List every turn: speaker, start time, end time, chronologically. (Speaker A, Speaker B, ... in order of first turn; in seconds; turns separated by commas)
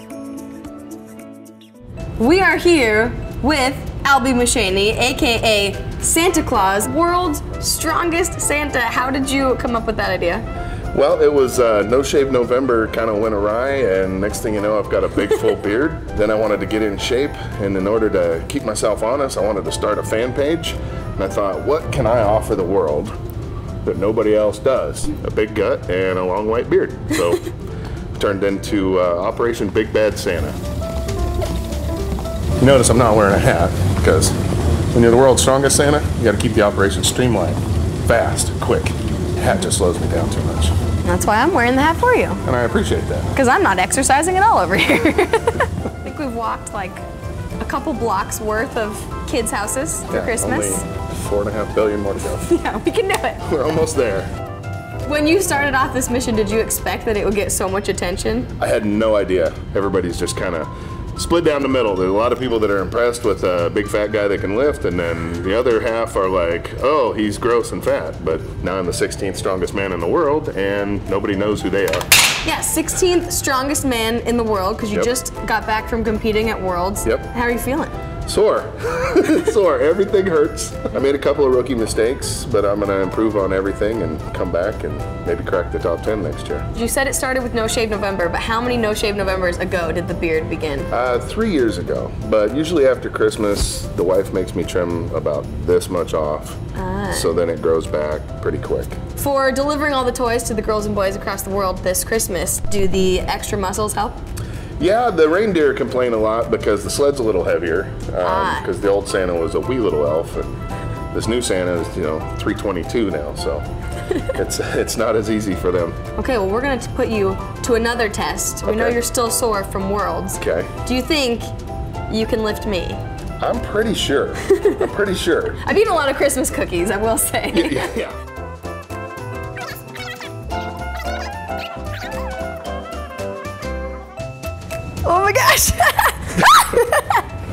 Speaker A: 2.2-10.4, Speaker B: 10.9-23.1, Speaker B: 23.8-27.5, Speaker B: 28.1-30.5, Speaker B: 32.6-34.4, Speaker B: 34.9-40.7, Speaker A: 41.0-42.4, Speaker B: 42.4-43.4, Speaker A: 43.3-47.0, Speaker A: 47.6-50.9, Speaker B: 50.1-52.5, Speaker A: 52.4-53.4, Speaker B: 53.4-54.3, Speaker A: 55.0-58.5, Speaker B: 58.6-72.0, Speaker A: 72.4-77.9, Speaker B: 78.3-86.7, Speaker A: 86.7-90.9, Speaker B: 90.9-96.6, Speaker A: 96.7-97.3, Speaker B: 97.1-99.0, Speaker A: 99.2-104.2, Speaker B: 104.8-110.5, Speaker A: 108.2-108.7, Speaker B: 111.1-113.6, Speaker B: 114.2-116.0, Speaker A: 116.2-121.5, Speaker B: 118.6-119.0, Speaker B: 120.4-120.7, Speaker A: 122.1-123.0, Speaker B: 123.4-125.6, Speaker A: 124.5-124.8, Speaker A: 125.6-127.9, Speaker B: 127.5-128.2, Speaker A: 135.0-137.2